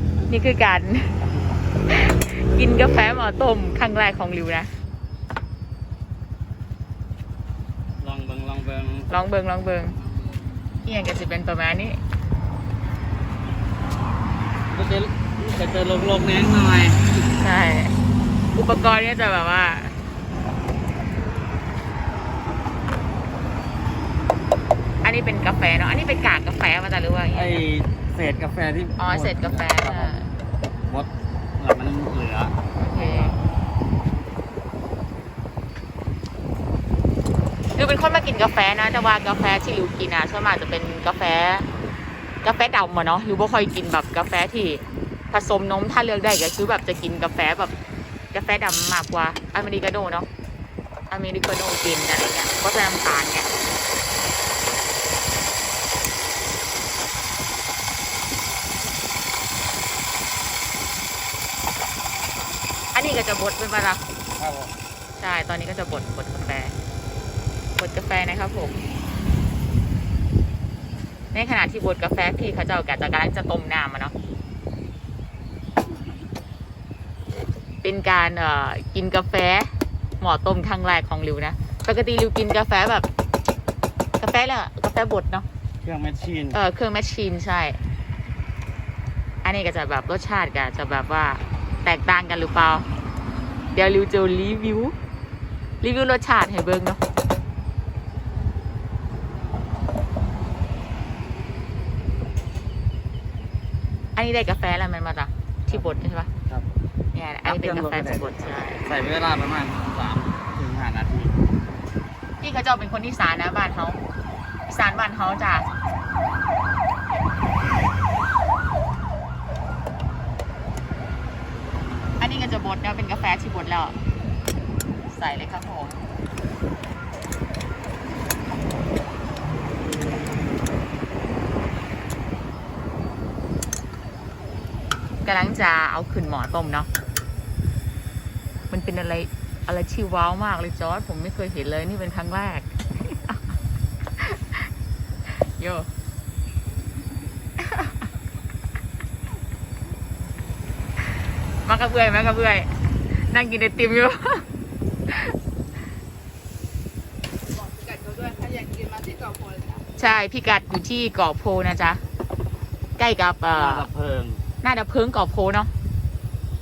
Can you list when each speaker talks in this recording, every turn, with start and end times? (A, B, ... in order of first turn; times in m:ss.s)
0:00.3-0:01.2 A
0:01.9-0:04.7 A
0:08.0-0:09.1 B
0:09.1-0:10.0 A
0:10.8-0:12.0 A
0:14.7-0:17.0 B
0:17.3-0:18.0 A
0:18.6-0:20.0 A
0:25.0-0:27.6 A
0:27.3-0:30.2 B
0:29.0-0:30.3 A
0:30.9-0:33.4 B
0:32.8-0:33.4 A
0:37.8-0:41.7 A
0:42.4-0:47.7 A
0:48.3-0:50.3 A
0:51.1-0:53.5 A
1:02.9-1:04.0 A
1:04.4-1:04.7 B
1:05.2-1:06.8 A
1:07.8-1:08.8 A
1:11.3-1:14.1 A
1:17.8-1:23.1 A
1:24.2-1:25.5 A
1:25.8-1:26.6 B
1:26.5-1:27.8 A
1:29.4-1:32.9 A
1:33.7-1:35.0 A
1:35.8-1:37.0 A
1:44.2-1:46.3 A
1:47.1-1:48.9 A
1:47.4-1:51.4 B
1:52.4-1:54.0 A
1:54.7-1:55.7 A
2:02.2-2:04.0 A
2:05.1-2:06.0 A
2:15.2-2:16.9 A
2:18.7-2:23.4 A
2:24.2-2:24.7 A
2:25.4-2:25.9 A
2:27.6-2:28.0 A
2:31.6-2:34.4 A
2:35.1-2:35.3 A
2:37.6-2:39.8 C
2:40.0-2:42.0 A
2:43.0-2:43.9 A
2:43.5-2:44.4 B
2:44.6-2:45.7 A